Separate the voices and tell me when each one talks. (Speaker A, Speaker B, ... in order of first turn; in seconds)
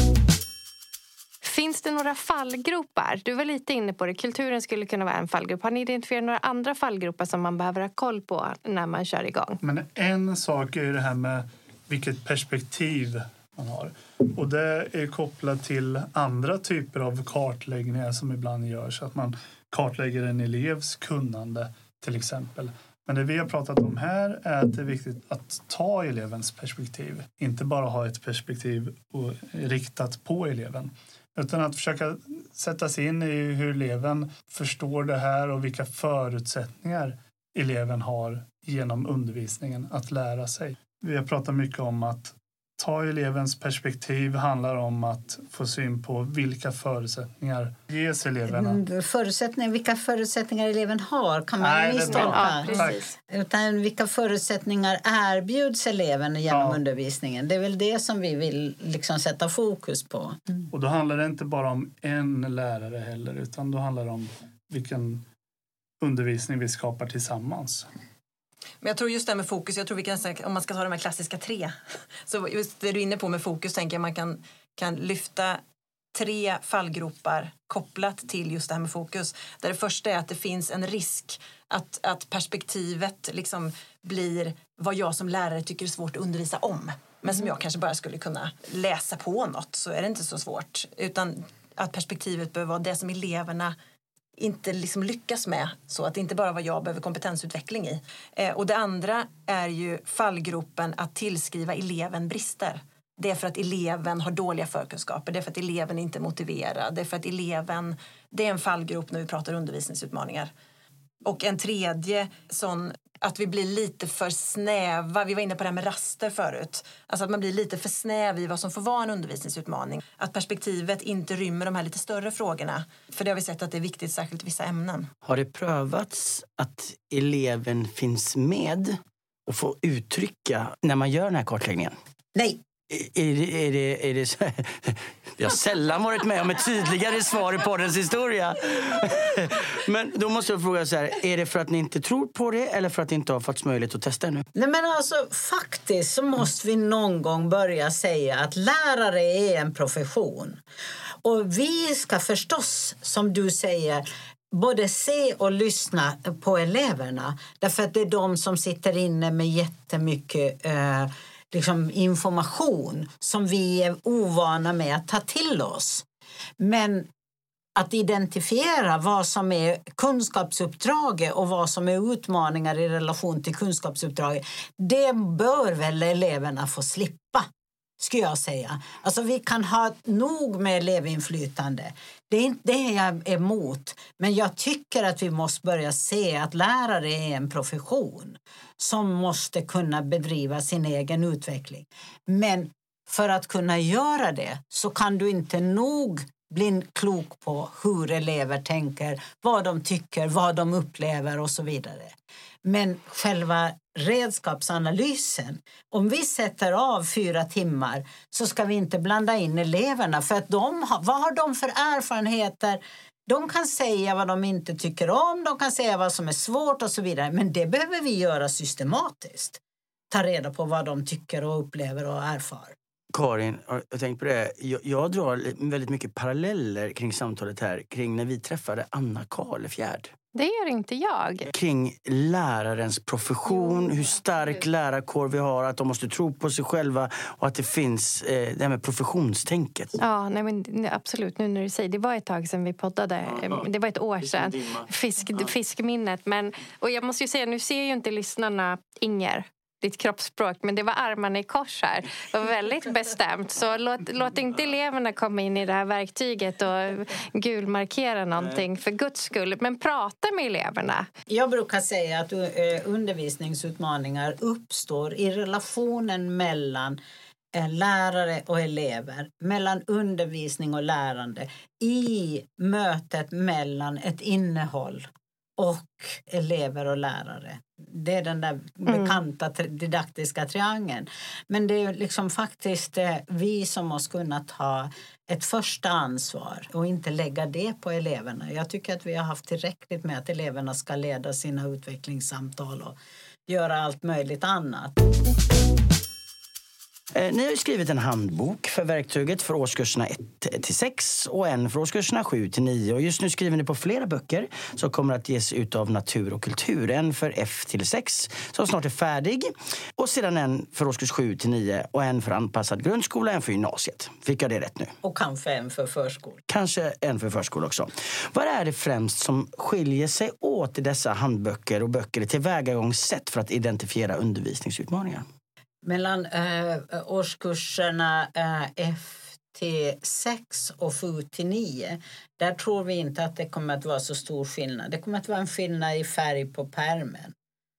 Speaker A: 1.4-9.6, 52.1-53.1, 230.3-231.5, 240.0-261.1, 278.9-279.1
Speaker B: 9.6-48.8, 51.6-53.0, 56.5-56.8, 60.7-65.2, 66.0-67.9
Speaker C: 48.5-60.6, 132.3-132.6, 144.6-150.6, 151.2-166.1, 166.6-167.1, 167.8-177.5, 178.0-202.1, 202.6-222.7, 261.3-267.0, 267.5-275.1, 275.6-293.0, 293.5-295.0, 315.0-316.4, 325.8-337.3
Speaker D: 68.8-75.6, 76.1-93.7, 94.4-110.5, 111.2-125.1
Speaker E: 125.2-131.9, 132.9-144.4, 223.1-230.1, 231.5-240.0, 243.3-243.6, 244.2-244.9, 297.1-314.9, 316.5-325.2